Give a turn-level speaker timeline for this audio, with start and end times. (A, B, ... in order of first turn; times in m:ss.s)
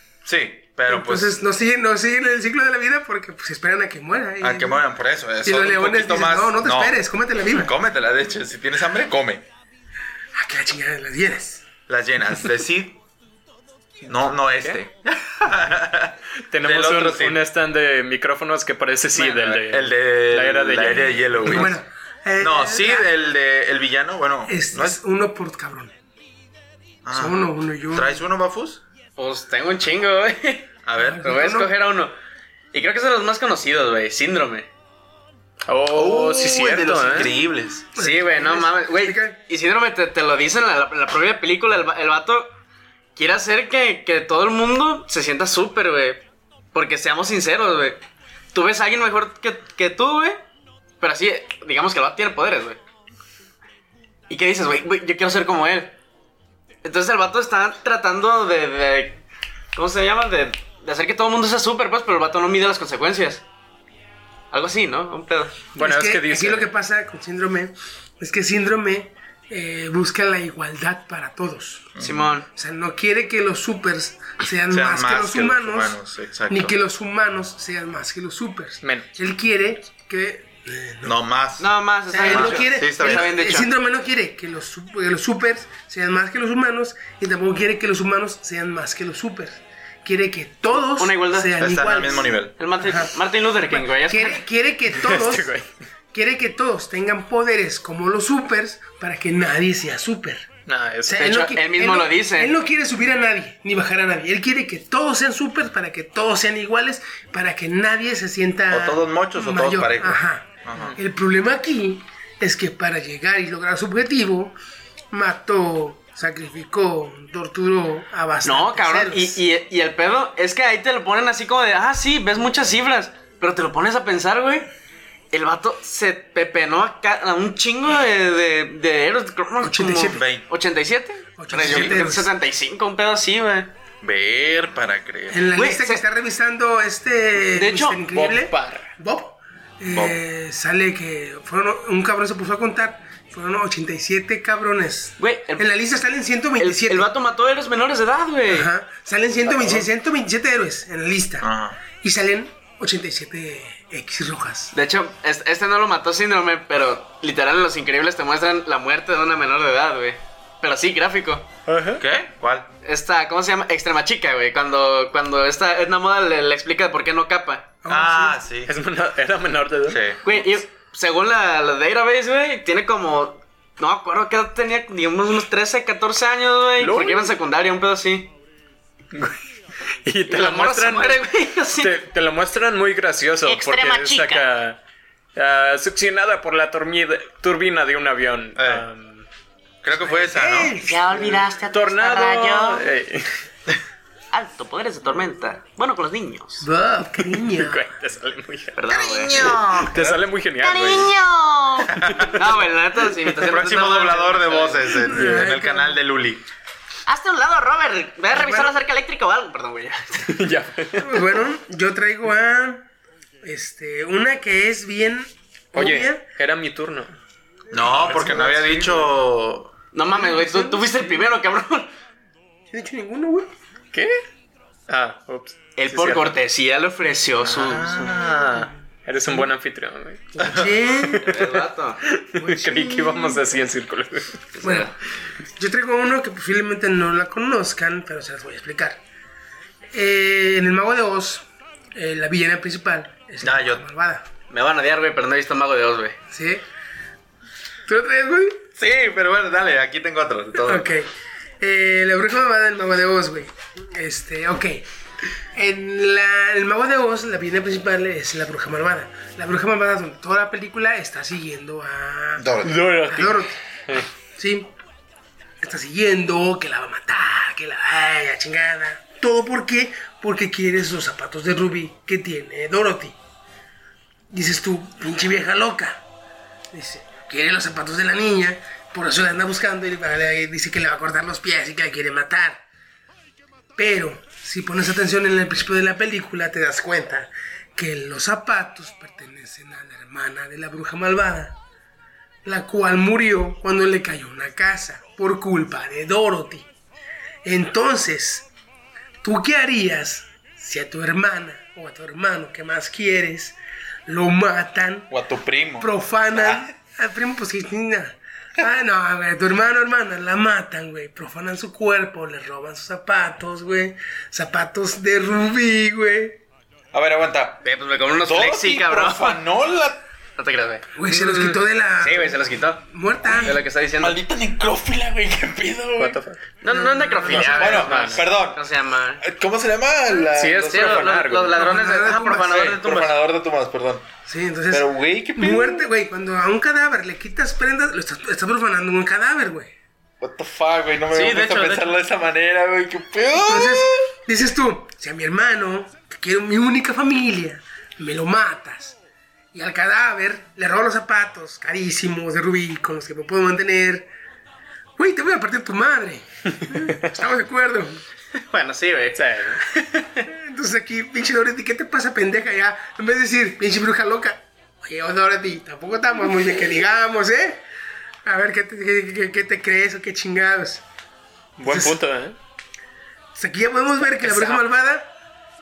0:00.2-0:01.4 A
0:00.9-0:04.8 B
0:04.4-0:09.4 A
0:05.4-0:07.7 B
0:10.4-0:11.6 B
0:11.9-0:13.0 A
0:14.0-0:17.4 A
0:16.5-0:21.6 C
0:19.1-0:21.8 A
0:21.4-0:23.1 B
0:22.4-0:25.0 A
0:24.4-0:25.9 B
0:27.0-0:27.4 A
0:27.1-0:28.2 B
0:27.9-0:28.8 A
0:29.2-0:32.1 D
0:30.8-0:31.3 A
0:31.0-0:31.7 B
0:32.7-0:34.7 D
0:35.7-0:37.3 C
0:35.9-0:37.8 A
0:37.9-0:39.4 B
0:38.0-0:42.5 D
0:43.2-0:48.0 D
0:48.5-0:50.4 D
0:51.0-0:52.8 D
0:54.3-0:56.0 D
0:56.8-0:59.2 D
0:59.7-1:03.4 D
1:04.5-1:05.6 D
1:05.7-1:12.0 B
1:05.8-1:06.7 C
1:12.0-1:12.3 A
1:12.0-1:12.5 D
1:12.5-1:16.0 B
1:14.7-1:16.7 A
1:16.5-1:21.2 B
1:18.8-1:19.1 C
1:21.0-1:21.7 A
1:21.6-1:23.7 D
1:22.1-1:33.1 B
1:22.2-1:23.4 A
1:30.8-1:31.6 D
1:31.6-1:32.5 A
1:32.6-1:34.4 D
1:33.7-1:35.5 B
1:34.9-1:35.7 C
1:36.1-1:40.5 B
1:40.7-1:41.3 C
1:41.0-1:54.6 B
1:41.2-1:42.5 D
1:48.7-1:50.9 A
1:55.1-1:59.4 B
1:58.4-2:04.7 D
2:05.3-2:13.7 D
2:09.6-2:10.2 B
2:10.1-2:10.5 A
2:11.4-2:12.3 B
2:11.6-2:12.0 A
2:14.0-2:15.5 A
2:15.3-2:27.1 B
2:15.6-2:16.0 D
2:17.5-2:18.0 D
2:18.1-2:18.9 C
2:19.9-2:20.2 A
2:25.2-2:25.7 D
2:26.6-2:28.7 D
2:28.5-2:34.7 B
2:31.4-2:31.8 A
2:34.7-2:41.5 D
2:41.7-2:42.0 C
2:42.0-2:42.7 A
2:42.8-2:47.7 D
2:47.8-2:48.4 B
2:47.9-2:48.7 A
2:48.6-2:50.4 C
2:49.9-2:50.2 A
2:50.2-2:58.3 D
2:56.8-2:57.2 C
2:59.1-2:59.4 C
3:00.0-3:01.2 C
3:00.3-3:01.9 D
3:01.8-3:04.8 C
3:03.4-3:04.5 E
3:05.4-3:09.3 C
3:08.6-3:08.8 A
3:09.8-3:10.8 A
3:10.0-3:11.4 B
3:10.8-3:12.9 E
3:11.7-3:13.4 C
3:14.3-3:16.7 D
3:16.6-3:17.9 B
3:17.2-3:18.8 C
3:18.8-3:19.6 D
3:18.9-3:19.3 E
3:18.9-3:20.2 A
3:19.7-3:21.1 C
3:20.6-3:21.9 E
3:21.8-3:22.5 A
3:22.0-3:22.4 C
3:22.3-3:25.0 D
3:23.3-3:26.4 A
3:25.0-3:26.0 B
3:27.1-3:30.3 D
3:28.3-3:28.7 B
3:30.2-3:31.3 C
3:31.0-3:32.8 B
3:33.4-3:36.2 B
3:35.7-3:37.1 C
3:37.7-3:39.1 B
3:37.7-3:39.7 A
3:39.9-3:41.9 D
3:40.1-3:41.2 B
3:42.7-3:43.5 B
3:43.9-3:44.2 C
3:44.9-3:46.4 C
3:45.8-3:48.0 D
3:47.4-3:48.5 A
3:47.8-3:50.5 C
3:50.3-3:51.3 B
3:50.4-3:50.7 A
3:51.0-3:54.5 C
3:51.2-3:52.0 D
3:52.4-3:53.4 B
3:54.6-3:54.9 D
3:54.6-3:54.9 B
3:55.6-3:59.0 B
3:59.9-4:04.2 B
4:03.4-4:03.9 A
4:04.5-4:06.2 D
4:06.3-4:06.6 B
4:07.8-4:08.6 B
4:08.8-4:10.9 A
4:10.6-4:11.1 B
4:11.6-4:14.8 B
4:15.5-4:22.5 B
4:22.4-4:22.9 A
4:22.6-4:24.1 C
4:23.0-4:23.6 B
4:24.4-4:24.7 B
4:25.6-4:33.2 B
4:34.3-4:36.0 B
4:36.7-4:42.6 B
4:43.8-4:51.6 B
4:52.4-4:56.7 B
4:57.4-4:58.5 B
4:59.2-5:05.1 B
5:05.1-5:06.7 A
5:05.8-5:16.4 B
5:16.9-5:17.7 A
5:17.6-5:19.4 D
5:18.2-5:20.0 A
5:20.4-5:24.2 D
5:20.9-5:23.6 B
5:24.0-5:26.2 A
5:26.0-5:26.4 C
5:26.6-5:29.2 D
5:26.7-5:27.8 B
5:27.3-5:28.6 A
5:27.7-5:28.3 C
5:29.2-5:31.2 A
5:30.3-5:31.6 C
5:30.7-5:33.2 D
5:31.5-5:32.7 B
5:32.4-5:34.1 A
5:34.3-5:39.7 B
5:34.7-5:35.9 A
5:40.2-5:44.1 A
5:41.1-5:42.0 D
5:43.4-5:49.0 B
5:49.5-5:54.1 B
5:55.0-5:58.0 B
5:56.6-5:56.9 C
5:58.3-6:00.3 D
5:59.1-5:59.6 C
6:00.3-6:07.6 B
6:08.2-6:10.8 B
6:11.6-6:12.4 C
6:11.7-6:12.0 B
6:13.3-6:15.1 B
6:14.2-6:14.6 C